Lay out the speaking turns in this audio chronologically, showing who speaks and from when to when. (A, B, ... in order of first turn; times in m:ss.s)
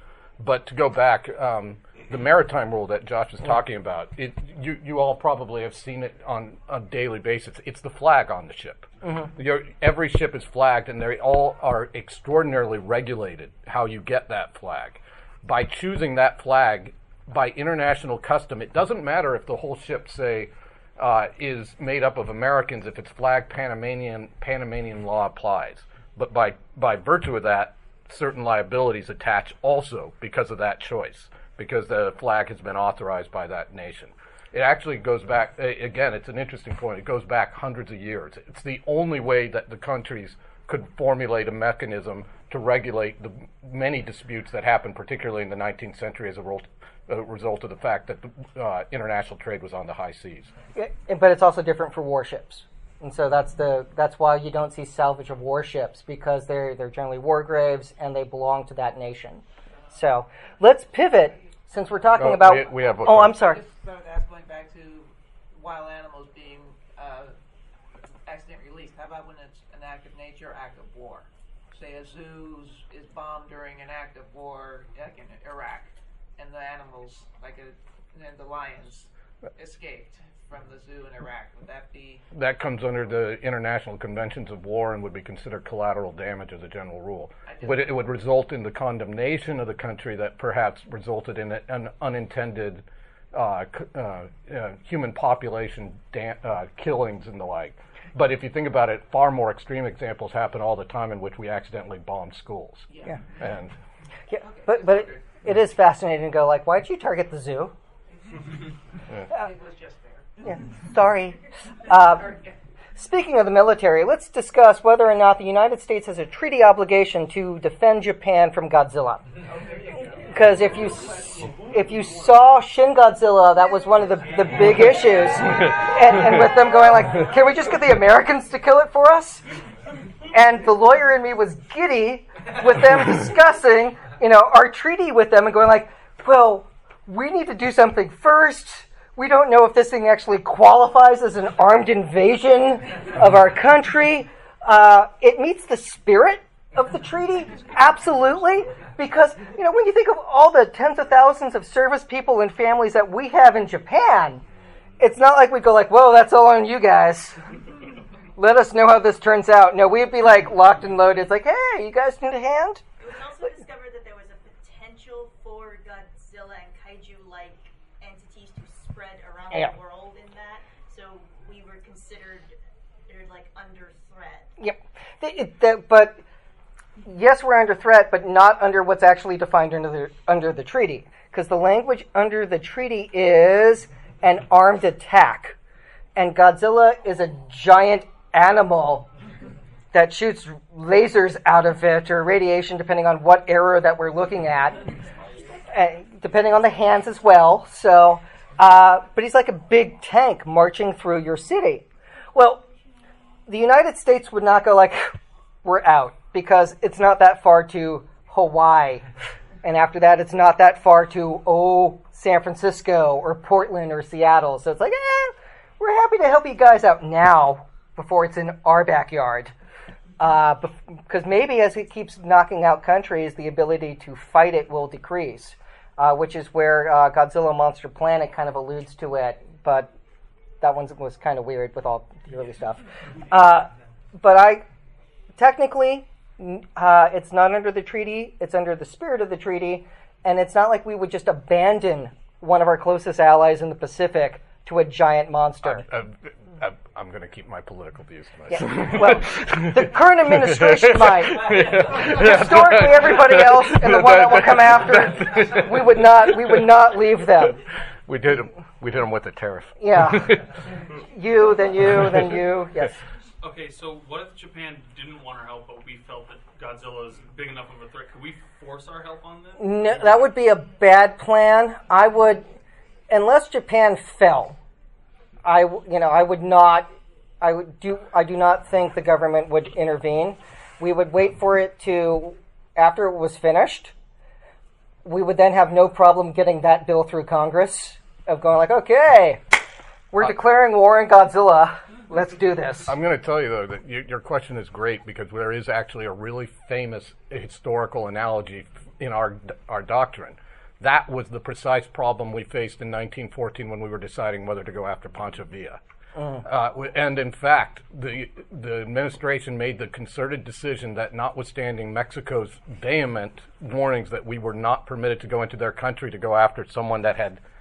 0:00.4-0:50.5 A
0:50.7-1:03.6 B
1:02.2-1:03.4 A
1:03.1-1:07.3 C
1:08.2-1:22.2 C
1:22.3-1:43.7 A
1:27.5-1:28.0 C
1:42.9-1:43.2 C
1:44.3-1:47.7 B
1:44.4-1:45.1 C
1:48.3-1:48.6 C
1:49.2-1:50.6 C
1:50.4-1:52.3 B
1:53.0-1:59.3 B
1:59.5-2:01.4 C
2:00.0-2:09.4 B
2:05.6-2:06.4 A
2:10.3-2:34.4 B
2:35.0-2:37.4 B
2:38.4-2:42.8 B
2:43.0-2:52.6 D
2:53.1-2:54.5 D
2:54.6-2:56.2 B
2:57.0-3:05.6 B
3:06.2-3:09.1 B
3:09.9-3:14.8 B
3:15.7-3:22.6 B
3:23.5-3:25.1 B
3:25.6-3:29.0 B
3:29.6-3:39.5 B
3:40.2-3:49.9 B
3:50.6-3:54.6 B
3:55.4-4:05.8 B
4:05.6-4:16.6 A
4:08.5-4:17.6 B
4:11.4-4:12.0 C
4:18.1-4:20.5 A
4:19.8-4:20.3 B
4:21.1-4:22.9 B
4:21.8-4:22.3 A
4:23.4-4:29.9 E
4:29.6-4:32.4 B
4:33.1-4:34.6 B
4:35.4-4:43.9 B
4:45.0-4:49.4 B
4:50.1-4:52.9 B
4:52.9-5:05.8 A
5:06.4-5:17.4 A